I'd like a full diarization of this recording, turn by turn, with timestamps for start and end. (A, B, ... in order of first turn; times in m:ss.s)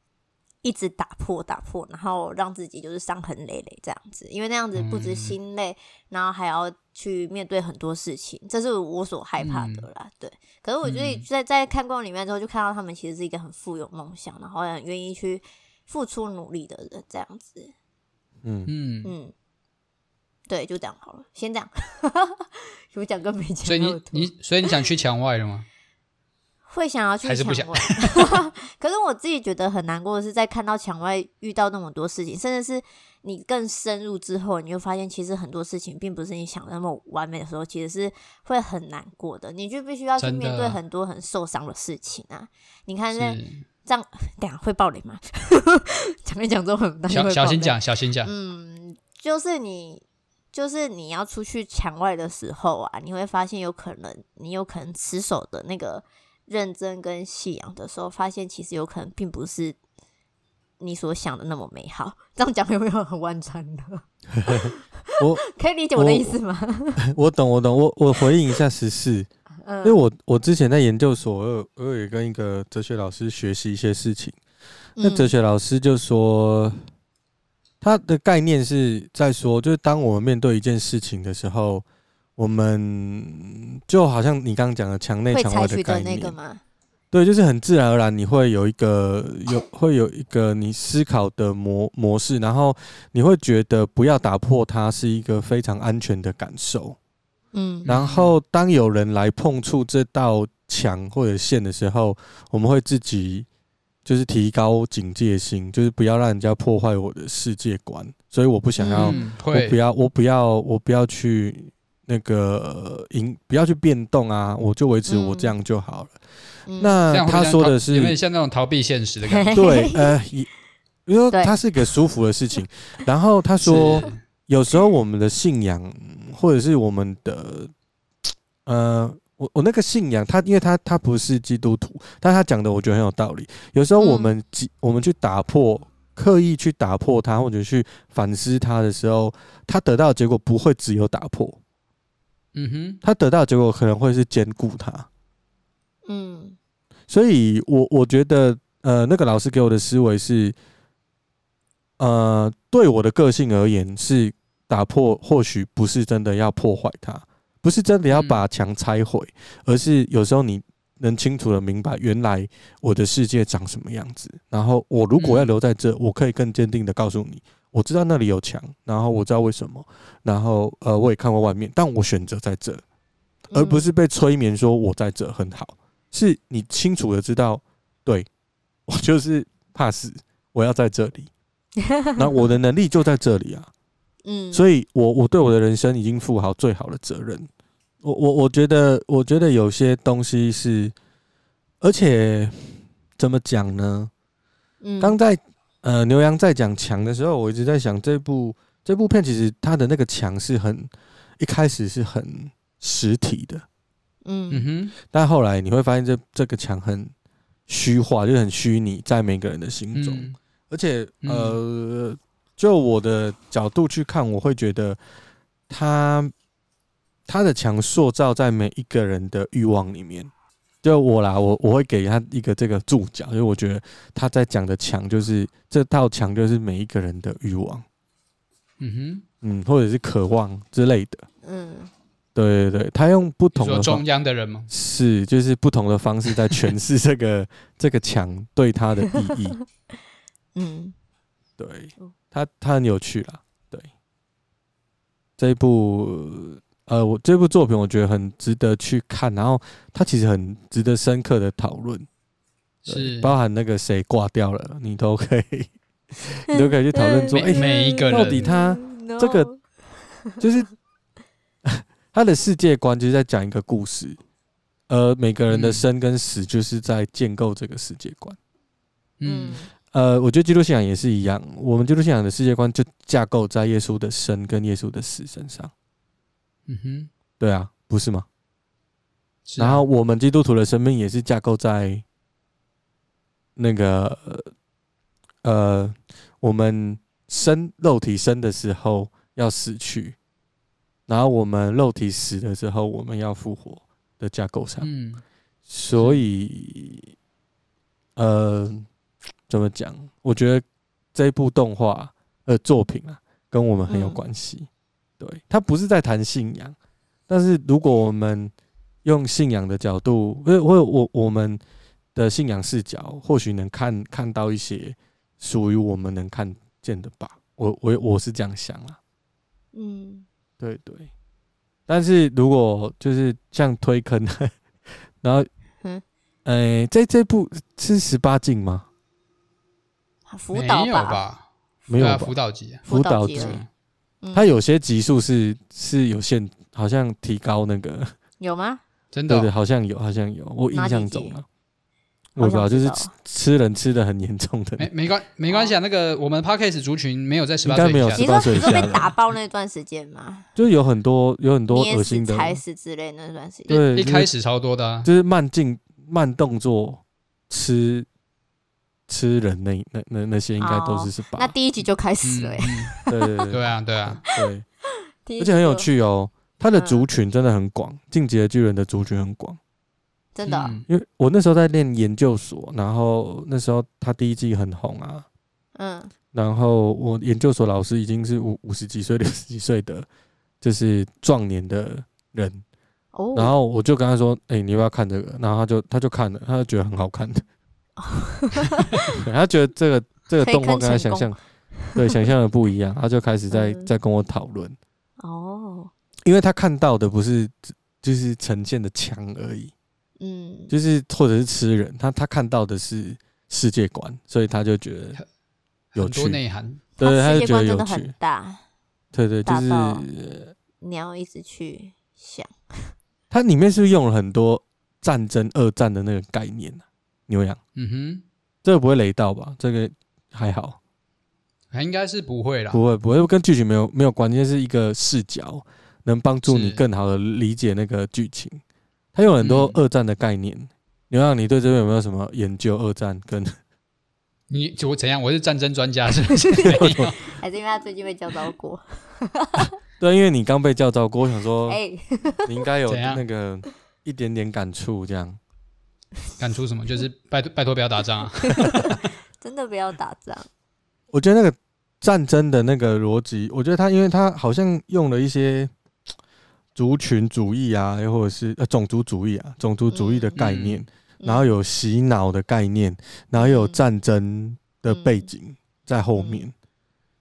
0:00.6-0:17.7 A
0:04.7-0:05.4 B
0:09.4-0:09.9 B
0:10.8-0:11.2 B
0:18.4-0:18.7 C
0:18.7-0:19.1 B
0:19.0-0:19.3 A
0:20.5-0:24.3 A
0:23.6-0:25.6 B
0:26.7-0:59.8 A
0:27.2-0:28.4 B
0:40.2-0:40.8 B
0:43.1-0:43.6 B
0:47.1-0:48.3 B
1:00.8-1:07.0 A
1:04.3-1:05.4 C
1:05.9-1:06.3 C
1:07.0-1:09.3 C
1:09.6-1:10.0 A
1:09.8-1:14.4 C
1:15.0-1:15.3 A
1:15.0-1:16.8 C
1:17.8-1:21.8 C
1:22.4-1:26.4 C
1:25.3-1:26.6 A
1:27.1-1:37.0 C
1:37.5-1:37.9 A
1:37.8-1:38.3 B
1:37.8-1:43.5 C
1:44.0-1:56.2 C
1:48.8-1:49.2 A
1:48.9-1:49.8 B
1:55.1-1:55.5 A
1:56.6-1:57.0 A
1:56.8-1:58.2 C
1:57.1-1:59.5 B
1:59.2-2:00.1 A
1:59.5-2:00.5 C
2:01.0-2:07.7 C
2:01.3-2:01.6 A
2:03.6-2:04.2 B
2:08.6-2:21.6 C
2:14.0-2:14.3 A
2:22.5-2:23.0 B
2:23.0-2:25.1 C
2:26.0-2:26.6 A
2:27.1-2:30.6 C
2:32.0-2:52.8 C
2:38.1-2:38.4 B
2:45.2-2:45.5 B
2:53.5-2:53.9 A
2:53.5-2:58.3 C
2:58.9-3:01.3 C
3:01.8-3:02.3 A
3:02.2-3:03.7 C
3:04.2-3:04.6 A
3:04.5-3:07.5 C
3:08.0-3:10.9 C
3:11.8-3:14.1 C
3:14.8-3:15.2 A
3:15.0-3:23.6 C
3:24.2-3:24.7 A
3:24.5-3:24.9 B
3:25.1-3:27.1 C
3:27.7-3:35.0 C
3:29.9-3:30.4 B
3:31.2-3:31.6 B
3:35.7-3:36.3 C
3:37.3-3:40.3 C
3:40.8-3:47.8 C
3:48.8-3:49.2 B
3:49.4-3:51.2 C
3:51.4-3:51.9 A
3:52.3-3:54.0 C
3:53.5-3:54.7 B
3:54.7-3:59.6 C
4:00.5-4:00.9 A
4:01.6-4:03.9 C
4:05.4-4:12.1 C
4:12.8-4:13.3 B
4:12.9-4:19.5 C
4:16.5-4:19.6 A
4:17.3-4:18.5 B
4:20.4-4:20.7 C
4:21.6-4:24.2 C
4:24.9-4:28.4 C
4:25.5-4:25.8 B
4:29.2-4:29.6 B
4:29.2-4:29.7 A
4:29.9-4:35.7 C
4:36.7-4:37.1 B
4:37.4-4:38.2 C
4:39.5-4:39.8 B
4:39.6-4:42.0 C
4:43.6-4:44.5 C
4:45.4-4:50.2 C
4:51.1-4:54.9 C
4:54.8-4:55.2 B
4:55.7-4:57.1 C
4:55.9-4:56.2 B
4:58.2-4:58.9 C
4:59.5-5:04.7 C
5:03.9-5:04.2 A
5:05.2-5:06.8 C
5:07.3-5:08.5 C
5:09.0-5:11.6 C
5:12.1-5:19.0 C
5:19.7-5:20.2 A
5:20.6-5:21.1 C
5:21.9-5:24.5 C
5:25.2-5:25.5 C
5:26.4-5:28.9 C
5:30.3-5:31.2 A
5:30.5-5:32.8 B
5:31.9-5:32.4 C
5:32.8-5:33.6 A
5:32.9-5:33.6 C
5:33.4-5:33.7 B
5:34.2-5:34.5 A
5:34.3-5:38.1 C
5:38.4-5:38.8 A
5:39.1-5:39.5 B
5:39.3-5:41.4 C
5:40.7-5:41.4 A
5:42.3-5:44.9 C
5:42.4-5:43.1 A
5:44.8-5:48.3 B
5:45.5-5:45.8 A
5:47.6-5:49.1 C
5:48.2-5:50.5 A
5:50.6-5:52.6 C
5:51.7-5:53.8 A
5:53.7-5:54.3 C
5:53.7-5:55.1 B
5:55.0-5:58.1 C
5:59.1-6:01.5 C
6:00.6-6:03.5 A
6:02.2-6:02.9 B
6:03.1-6:04.6 C
6:03.5-6:04.2 B
6:05.2-6:05.9 A
6:05.4-6:09.6 C
6:06.7-6:07.0 A
6:10.3-6:10.8 A
6:10.4-6:10.8 B
6:10.9-6:15.2 C
6:15.8-6:16.1 A
6:16.3-6:20.1 C
6:20.6-6:22.6 C
6:23.1-6:23.5 A
6:23.3-6:27.4 C
6:28.0-6:29.2 A
6:29.1-6:31.3 C
6:30.4-6:32.2 A
6:31.9-6:34.8 C
6:33.5-6:33.9 A
6:35.2-6:35.9 A
6:36.2-6:39.7 C
6:40.2-6:40.7 A
6:40.7-6:45.2 C
6:45.9-6:46.8 B
6:46.0-6:46.4 C
6:47.0-6:48.6 A
6:47.0-6:48.1 C
6:49.1-6:50.5 C
6:49.4-6:50.0 A
6:50.8-6:52.9 A
6:53.3-6:57.6 C
6:57.8-6:58.2 B
6:58.6-7:00.8 C
7:01.7-7:02.8 B
7:02.7-7:08.6 C
7:06.4-7:06.8 B
7:09.1-7:13.6 C
7:09.4-7:09.8 B
7:14.5-7:17.2 B
7:16.7-7:17.1 C
7:17.2-7:19.7 A
7:19.6-7:21.8 C
7:21.7-7:22.5 A
7:22.4-7:25.4 C
7:22.9-7:23.2 B
7:26.4-7:29.0 B
7:28.4-7:30.5 A
7:31.1-7:35.7 C
7:36.8-7:46.5 C
7:39.9-7:40.4 A
7:40.4-7:40.8 B
7:41.2-7:41.5 A
7:43.3-7:43.8 A
7:44.9-7:45.3 A
7:46.1-7:46.4 A